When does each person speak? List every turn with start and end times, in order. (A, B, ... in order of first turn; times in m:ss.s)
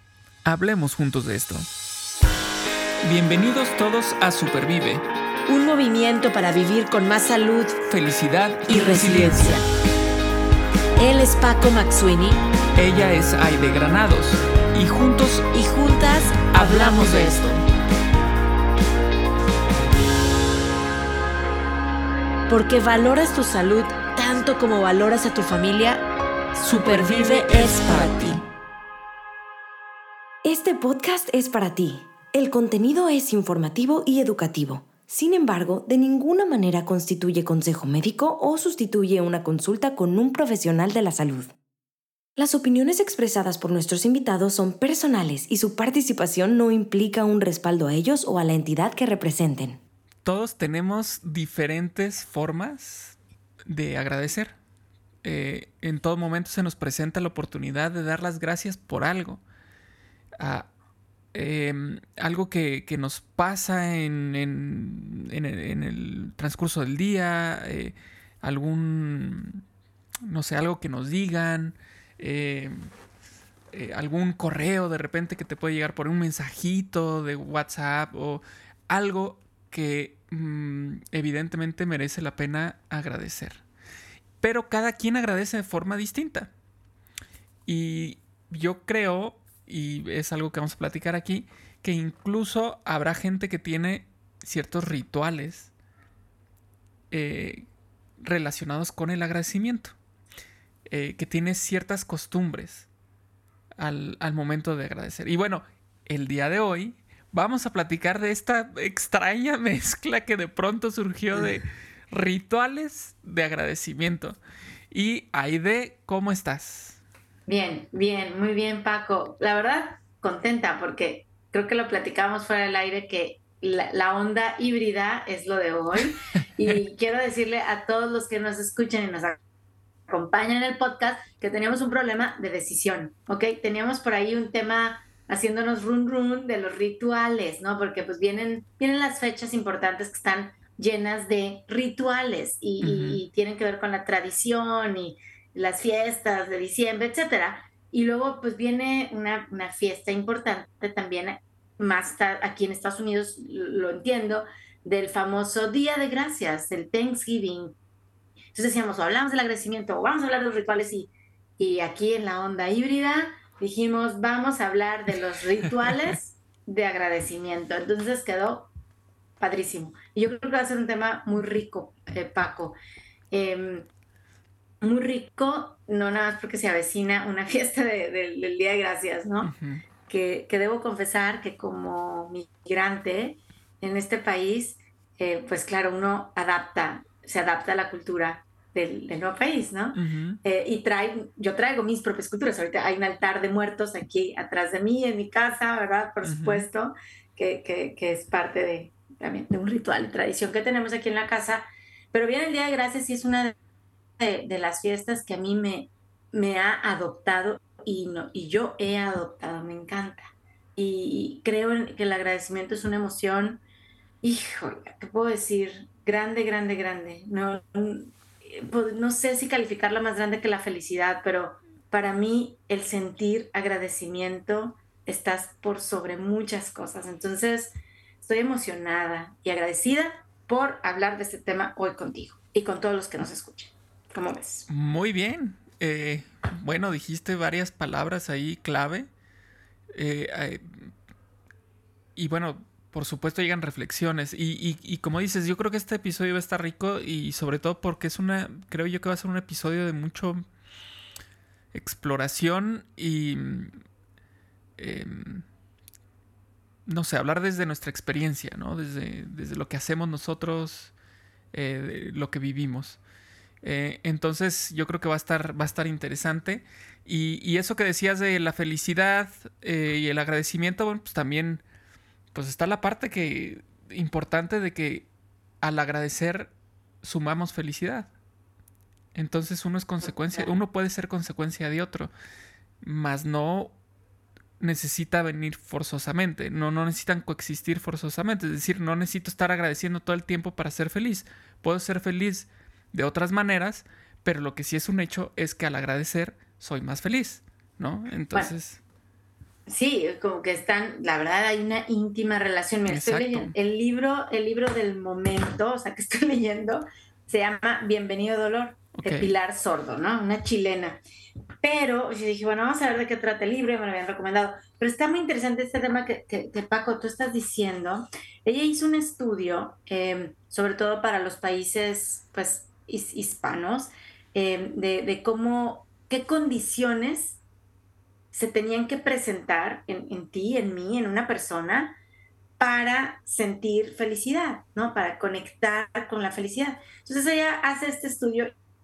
0:00.4-0:01.7 A
0:03.0-0:05.0 A
0:05.5-0:07.8 B
0:07.9-0:09.6 A
0:08.7-0:09.6 B
0:11.0-0:12.4 B
0:12.8-0:15.5 A
0:15.4-0:17.5 B
0:16.5-0:17.6 A
0:22.5-0:26.0 B
0:26.6-0:28.4 B
0:26.7-0:28.4 A
0:30.4-0:41.5 C
0:42.4-0:49.8 C
0:50.2-0:54.5 A
0:55.2-0:59.4 A
1:00.4-1:00.7 A
1:01.3-1:09.6 A
1:10.2-1:12.8 A
1:13.7-1:23.6 A
1:24.4-1:26.5 A
1:27.7-1:35.7 A
1:37.1-1:37.7 A
1:38.2-1:39.9 A
1:40.9-1:42.9 A
1:43.8-1:54.4 A
1:54.9-1:57.0 A
1:57.4-2:09.4 B
2:10.1-2:37.8 B
2:22.8-2:23.2 A
2:38.5-2:48.7 B
2:49.4-2:52.8 B
2:53.3-2:53.9 B
2:54.8-2:59.5 B
2:59.4-2:59.8 A
3:00.1-3:23.6 B
3:09.9-3:10.4 A
3:16.2-3:16.7 A
3:24.2-3:33.6 B
3:34.2-3:54.7 B
3:54.7-3:59.1 A
3:59.9-4:00.9 A
4:02.2-4:10.4 A
4:11.7-4:13.7 A
4:14.8-4:15.4 A
4:16.9-4:20.9 A
4:21.5-4:23.0 A
4:23.6-4:31.6 A
4:32.3-4:35.1 A
4:35.6-4:36.5 A
4:37.0-4:38.1 A
4:39.1-4:42.1 A
4:40.0-4:40.6 B
4:42.8-4:43.7 A
4:44.6-4:58.8 A
4:59.7-5:11.0 B
5:02.9-5:03.6 A
5:08.9-5:09.3 A
5:11.6-5:27.4 B
5:28.3-5:32.0 B
5:32.6-5:38.5 B